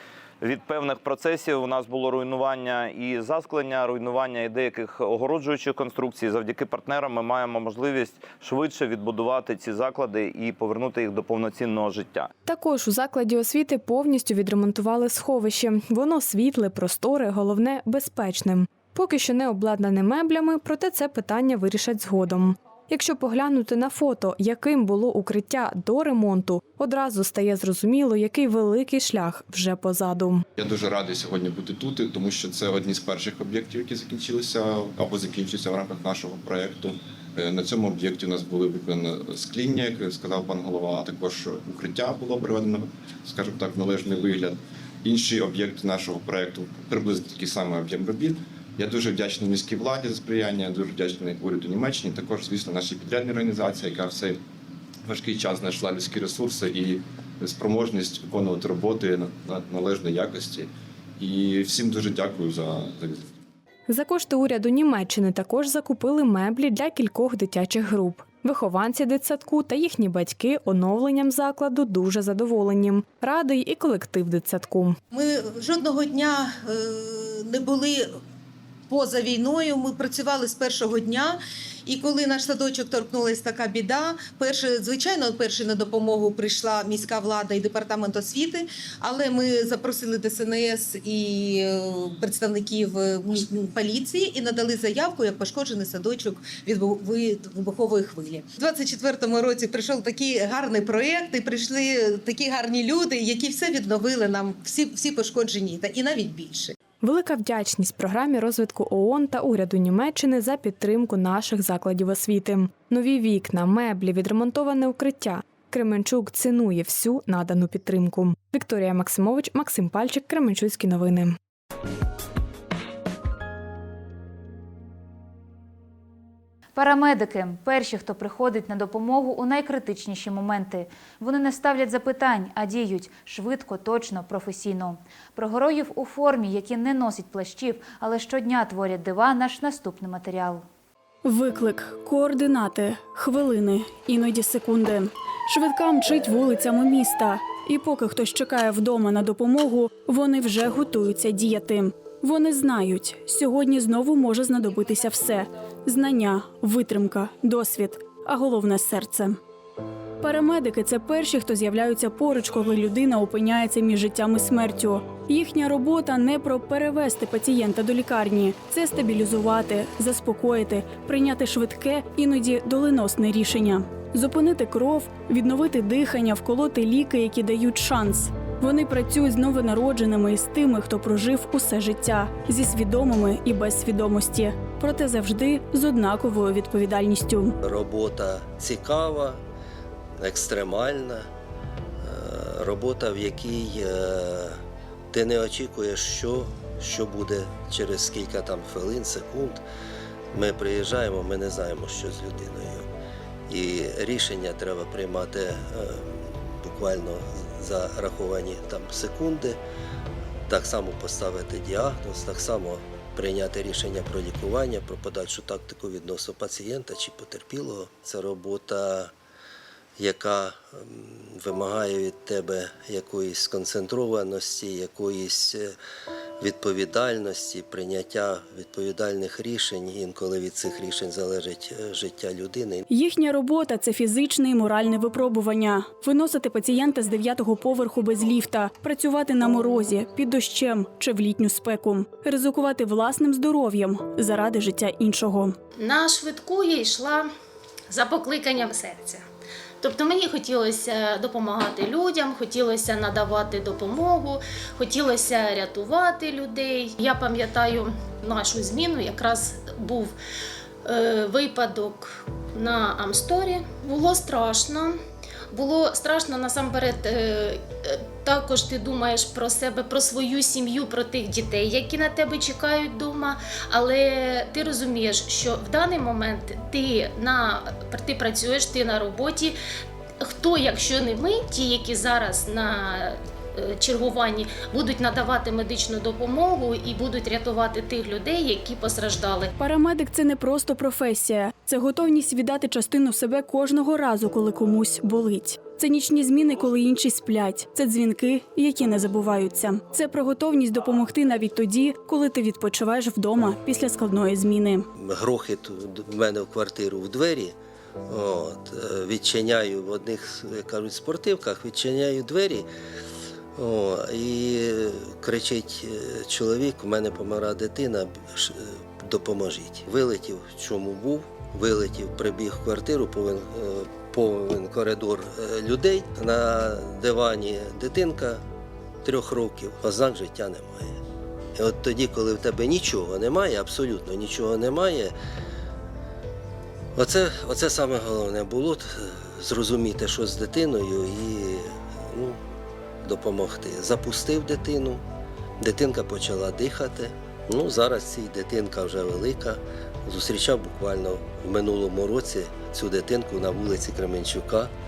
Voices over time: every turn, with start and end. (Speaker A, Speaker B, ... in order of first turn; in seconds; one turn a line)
Speaker A: 0.4-12.3
Speaker B: 12.4-30.4
Speaker C: 30.6-54.4
Speaker C: 55.0-63.3
Speaker B: 63.9-75.0
Speaker D: 75.1-78.1
Speaker D: 78.9-106.8
Speaker B: 107.0-121.4
Speaker E: 126.8-140.7
Speaker F: 141.2-159.4
Speaker F: 160.2-187.5
Speaker G: 187.6-189.4
Speaker G: 190.2-191.3
Speaker G: 192.0-194.6
Speaker G: 195.1-199.6
Speaker G: 200.3-202.9
Speaker G: 203.5-209.6
Speaker G: 210.5-219.1
Speaker G: 220.0-225.8
Speaker G: 226.4-232.9
Speaker F: 232.9-245.6
Speaker H: 245.8-247.3
Speaker H: 247.9-249.2
Speaker H: 249.8-260.1
Speaker H: 260.9-265.0
Speaker H: 265.5-279.6
Speaker H: 280.2-289.5
Speaker F: 289.6-304.9
Speaker G: 305.0-307.6
Speaker G: 308.1-312.7
Speaker G: 313.6-328.4
Speaker G: 329.0-331.0
Speaker G: 331.6-335.1
Speaker G: 336.9-342.4
Speaker G: 343.0-345.0
Speaker G: 345.6-354.7